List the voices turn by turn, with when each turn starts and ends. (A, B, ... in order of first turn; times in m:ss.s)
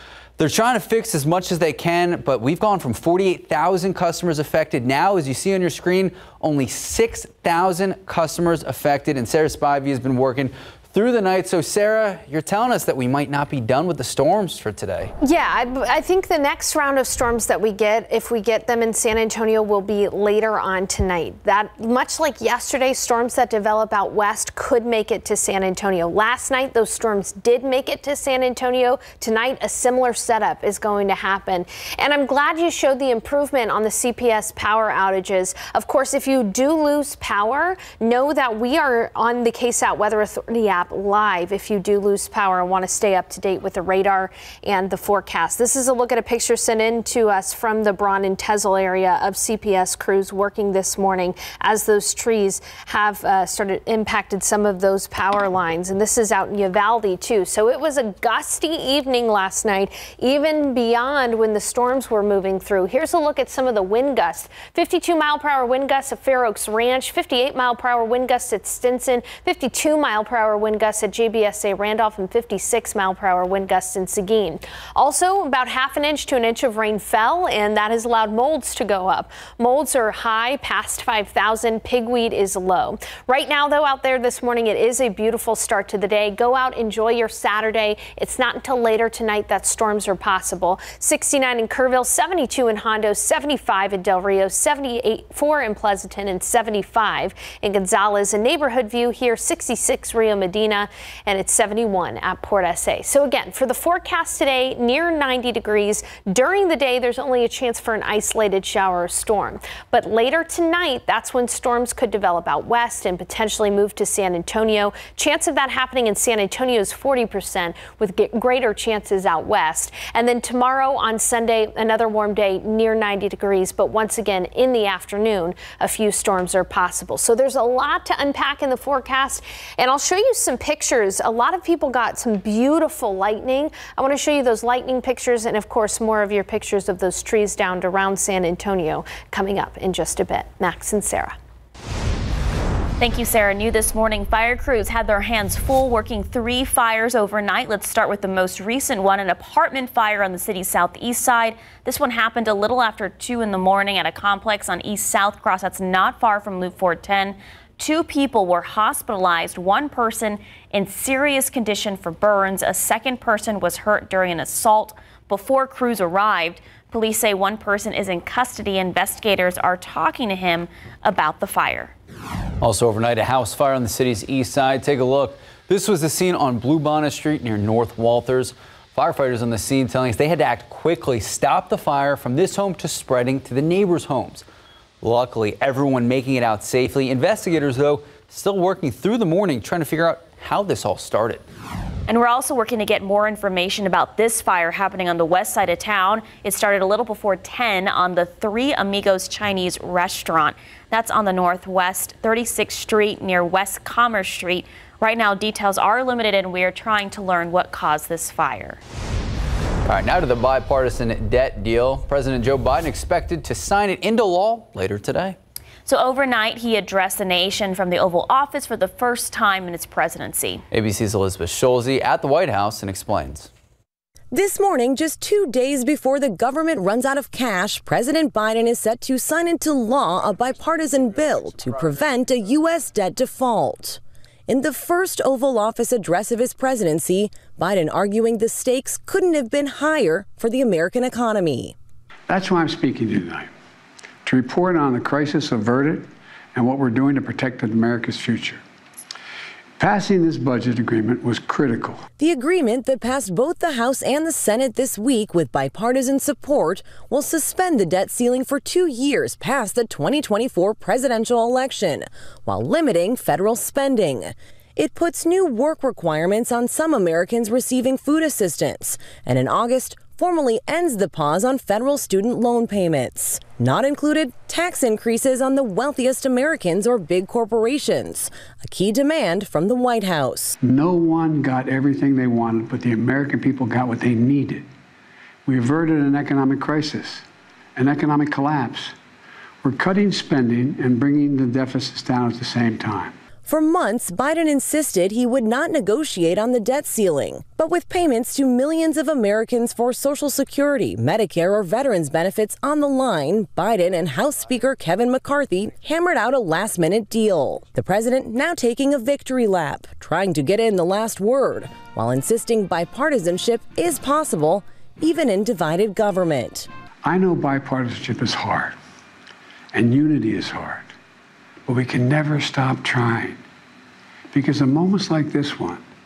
0:00.4-0:15.1 A
0:15.2-2:21.4 B
2:23.0-2:51.9 C
2:52.6-3:04.4 A
3:05.0-3:11.4 A
3:12.1-3:28.8 C
3:29.9-3:35.4 A
3:35.9-3:40.6 C
3:40.7-3:43.5 A
3:44.3-4:01.7 D
4:02.3-4:03.5 E
4:04.2-4:08.6 E
4:09.8-4:12.0 E
4:12.2-4:40.6 D
4:40.6-4:44.7 E
4:45.5-4:47.2 E
4:47.8-4:49.0 E
4:49.6-4:53.2 E
4:53.5-5:16.7 D
5:17.0-5:18.8 E
5:19.7-5:20.9 E
5:21.7-5:23.4 E
5:24.3-5:25.8 E